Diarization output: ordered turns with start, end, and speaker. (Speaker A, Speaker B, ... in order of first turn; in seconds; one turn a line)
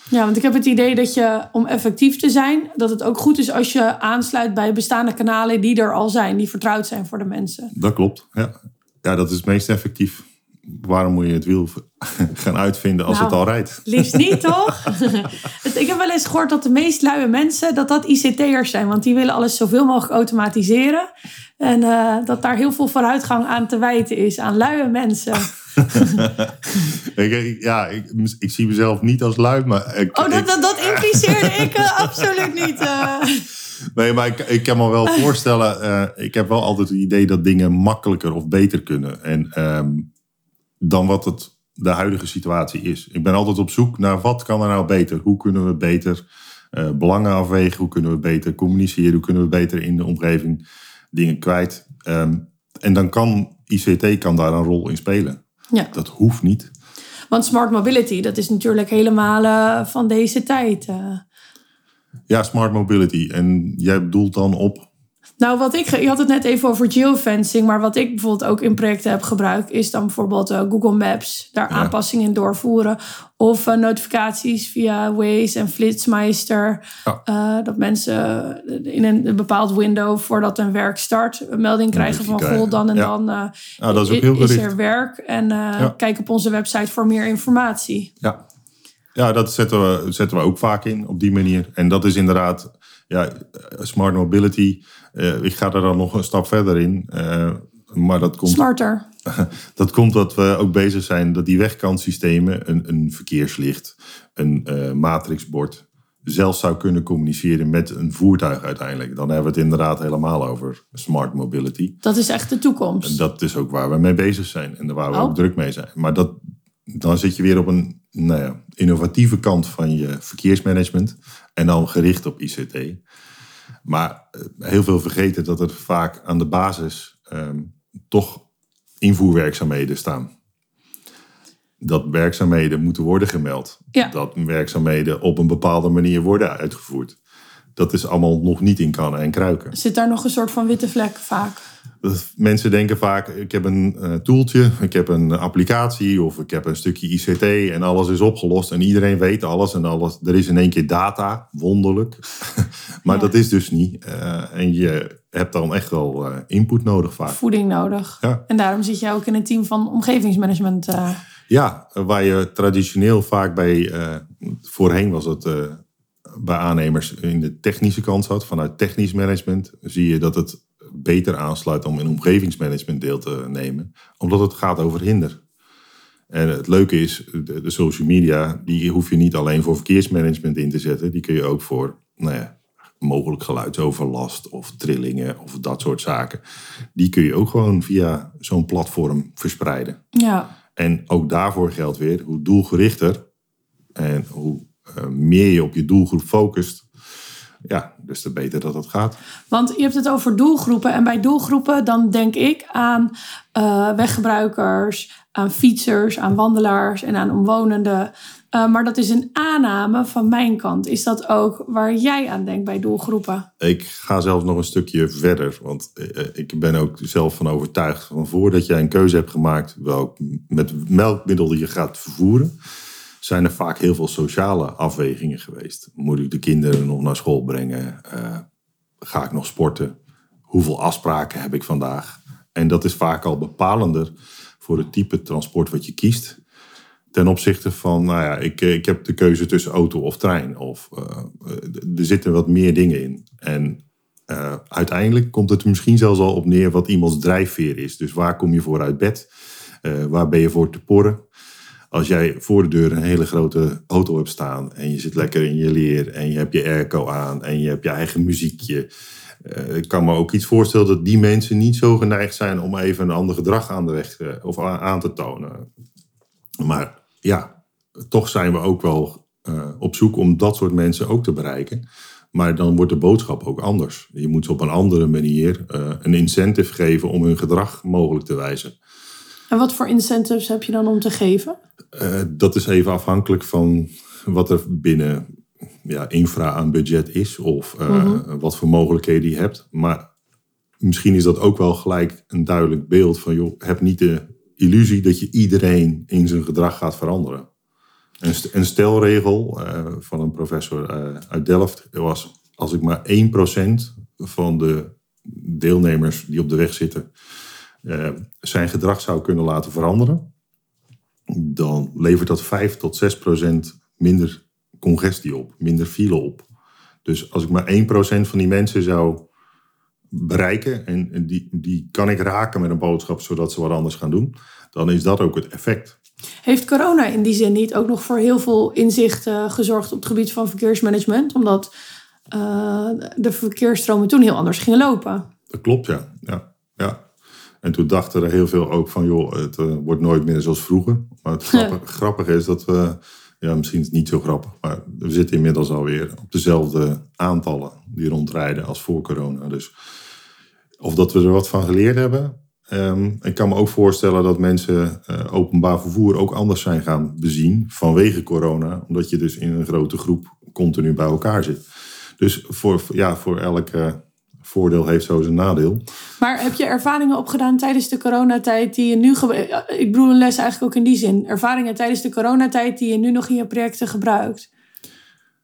Speaker A: 0.1-7.7
Speaker B: 7.7-14.5
Speaker A: 13.1-21.1
Speaker A: 21.6-26.2
Speaker B: 26.0-32.2
Speaker A: 30.1-33.5
Speaker B: 33.9-40.1
Speaker B: 40.8-46.2
Speaker B: 46.7-50.6
Speaker B: 51.1-55.4
Speaker B: 55.9-56.7
Speaker A: 57.3-61.2
Speaker B: 62.3-64.9
Speaker A: 65.4-88.1
Speaker B: 81.9-83.1
Speaker B: 83.8-84.7
Speaker B: 89.2-98.7
Speaker A: 98.5-99.0
Speaker B: 99.3-112.0
Speaker A: 112.0-113.2
Speaker B: 113.0-116.4
Speaker B: 116.9-123.0
Speaker B: 123.9-128.4
Speaker B: 129.0-130.3
Speaker B: 131.8-137.2
Speaker B: 137.8-139.7
Speaker A: 139.7-141.6
Speaker B: 142.0-157.4
Speaker A: 157.3-161.2
Speaker B: 161.5-175.4
Speaker B: 176.3-186.4
Speaker B: 187.0-190.0
Speaker A: 190.1-190.5
Speaker B: 190.8-193.2
Speaker B: 194.0-196.9
Speaker B: 197.7-199.2
Speaker A: 199.5-213.5
Speaker B: 213.6-222.5
Speaker B: 223.2-228.4
Speaker B: 229.0-229.9
Speaker B: 230.5-234.1
Speaker B: 234.6-236.4
Speaker B: 237.1-249.3
Speaker B: 249.8-251.2
Speaker B: 251.9-258.9
Speaker B: 259.4-265.7
Speaker B: 266.6-267.5
Speaker B: 268.1-278.7
Speaker A: 279.5-281.6
Speaker B: 281.9-285.2
Speaker B: 285.9-290.0
Speaker A: 287.9-288.2
Speaker B: 290.8-297.5
Speaker B: 298.2-307.1
Speaker B: 307.8-310.2
Speaker B: 311.3-316.4
Speaker B: 317.1-319.3
Speaker B: 320.1-326.0
Speaker A: 326.4-331.7
Speaker A: 332.3-335.3
Speaker B: 335.5-337.0
Speaker B: 337.6-349.7
Speaker B: 350.8-361.6
Speaker B: 362.2-365.8
Speaker A: 366.2-374.5